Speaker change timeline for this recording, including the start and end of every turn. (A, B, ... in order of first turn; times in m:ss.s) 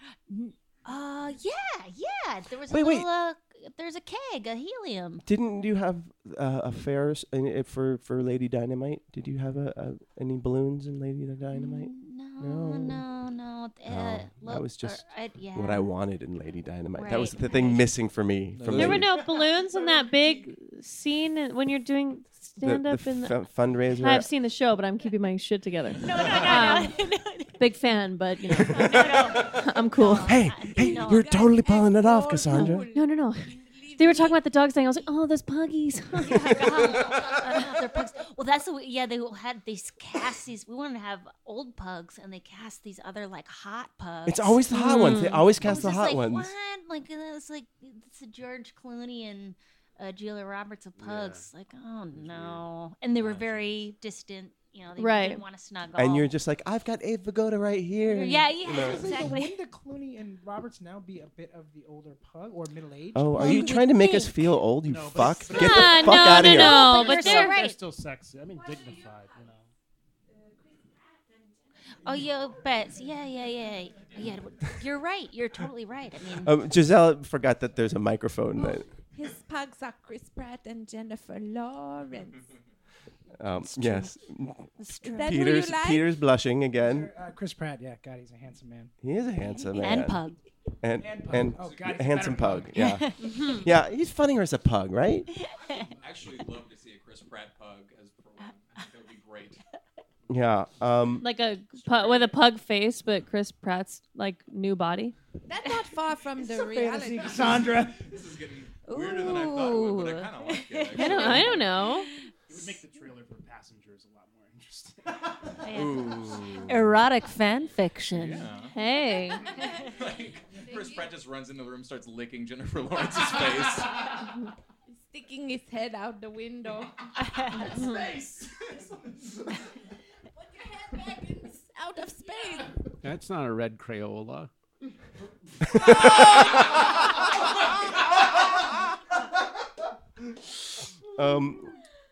0:00.3-0:05.2 A
0:02.7-0:03.1 B
0:05.2-0:13.0 B
0:11.5-0:15.9 A
0:13.9-0:19.1 B
0:17.0-0:17.9 A
0:18.6-0:19.1 C
0:18.7-0:23.4 D
0:22.6-0:24.3 B
0:24.0-0:27.0 D
0:26.0-0:27.6 A
0:27.6-0:30.4 D
0:28.5-0:29.6 B
0:28.6-0:31.4 A
0:30.2-0:32.9 B
0:30.7-0:34.4 E
0:32.5-0:36.6 D
0:36.2-0:56.3 A
0:44.3-0:46.5 B
0:44.7-0:45.5 D
0:53.2-0:53.8 F
0:55.0-0:55.4 D
0:56.0-0:59.0 B
0:58.0-0:59.5 A
0:58.4-1:03.8 G
1:03.1-1:07.0 B
1:03.4-1:04.3 A
1:04.8-1:09.6 H
1:05.5-1:07.6 D
1:06.3-1:07.8 A
1:08.6-1:09.4 E
1:10.3-1:11.8 E
1:12.0-1:16.6 A
1:16.4-1:18.9 B
1:18.6-1:22.5 E
1:23.4-1:27.1 B
1:23.7-1:24.1 A
1:24.8-1:25.7 A
1:25.1-1:26.1 E
1:26.8-1:28.9 G
1:29.0-1:30.2 B
1:29.6-1:30.4 A
1:30.8-1:35.3 B
1:31.0-1:32.8 G
1:32.8-1:33.7 A
1:33.2-1:33.6 D
1:35.4-1:35.9 A
1:35.9-1:39.6 F
1:40.3-1:41.3 B
1:41.2-1:45.2 D
1:41.8-1:42.3 F
1:45.5-1:47.7 E
1:46.4-1:48.1 G
1:47.7-1:51.7 F
1:48.9-1:52.1 A
1:51.0-1:52.1 D
1:52.5-1:55.5 H
1:55.6-1:58.5 A
1:55.7-1:56.9 F
1:58.1-1:58.8 F
1:58.7-1:59.5 D
1:59.1-2:01.1 E
1:59.9-2:04.1 F
2:04.9-2:08.2 E
2:07.2-2:08.0 A
2:10.4-2:12.8 E
2:13.0-2:14.5 C
2:15.6-2:17.0 B
2:21.1-2:21.8 B